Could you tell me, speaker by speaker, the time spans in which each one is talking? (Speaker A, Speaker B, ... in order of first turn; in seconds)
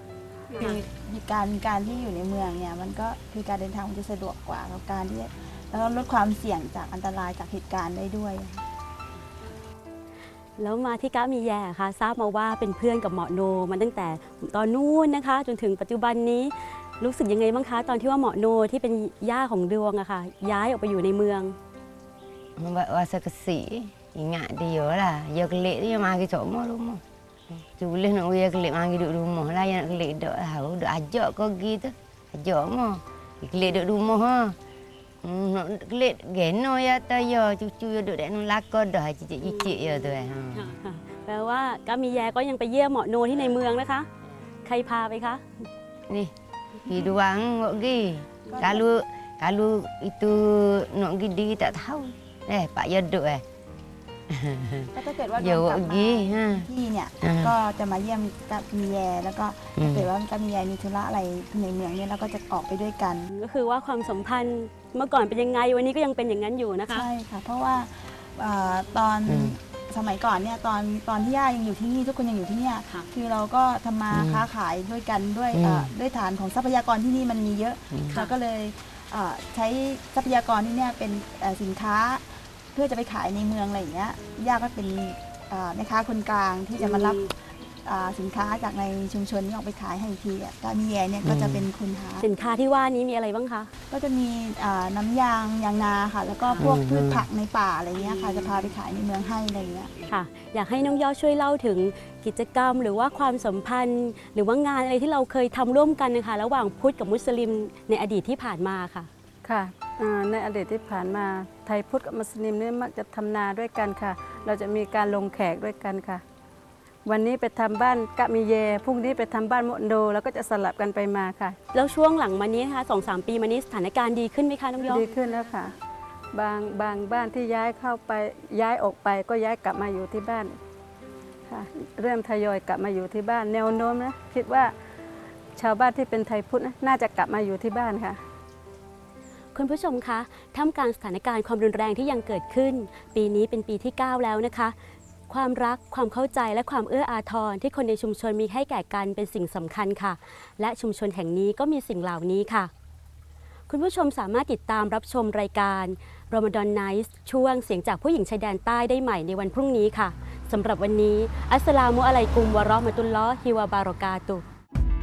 Speaker A: 0.5-0.8, 10.6-21.6, 39.4-44.1, 44.6-45.7, 63.3-67.1, 78.1-78.3, 86.8-87.3, 92.2-93.7, 98.0-98.5, 100.1-109.1, 121.7-125.1, 139.6-144.8, 145.3-152.7, 153.7-164.4
Speaker B: 0.6-8.6, 48.5-48.9, 54.9-63.3, 66.9-92.3, 93.9-99.9
Speaker C: 22.6-34.6, 35.2-40.8, 46.9-53.4, 54.3-56.7, 57.2-57.5, 59.8-60.1, 69.3-69.5, 74.1-74.4, 75.5-75.9, 91.2-91.7, 96.6-97.2
Speaker D: 109.4-116.2, 117.0-121.6, 124.8-125.8, 126.3-130.6, 131.5-134.8, 135.6-138.2